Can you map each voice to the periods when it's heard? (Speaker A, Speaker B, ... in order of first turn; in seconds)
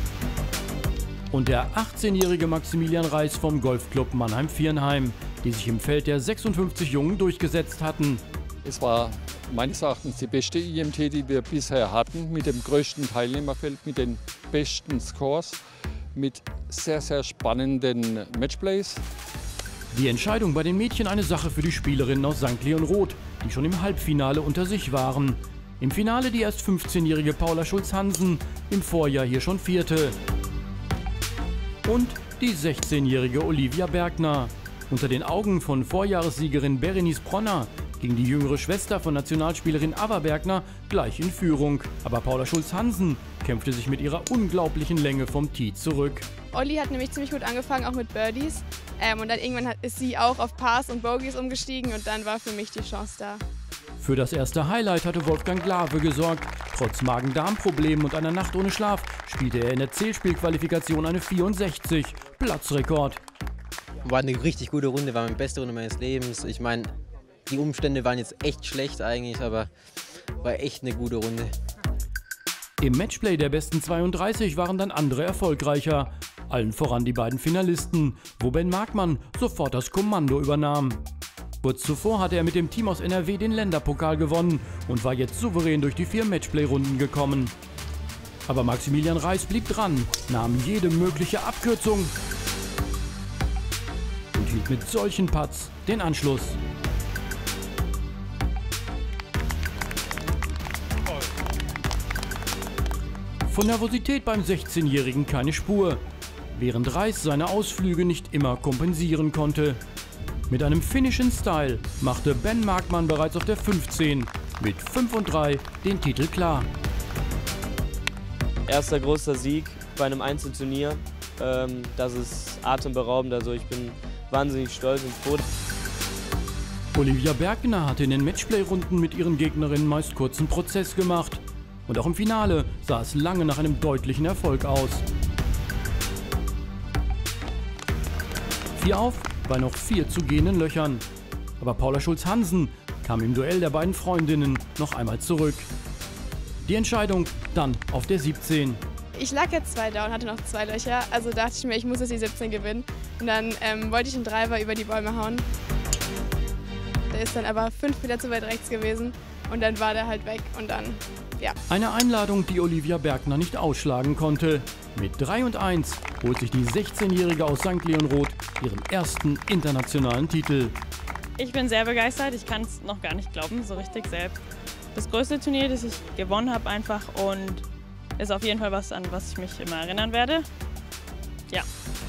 Speaker A: 1.3-8.2, 19.9-30.1, 31.8-46.3, 54.0-63.2, 72.8-81.0, 81.6-87.5, 88.5-92.1, 94.3-96.6, 103.5-106.0, 106.5-109.8, 110.5-116.7, 126.9-135.0, 138.7-141.0, 141.6-145.7, 146.6-148.8, 161.7-170.8
Speaker B: 8.6-15.6, 16.1-19.0
Speaker C: 46.5-53.4, 149.2-155.4, 157.1-161.6
Speaker D: 64.0-66.9, 67.5-69.7, 70.4-71.5
Speaker E: 118.7-125.5
Speaker F: 171.4-174.4, 174.9-177.7, 178.2-180.4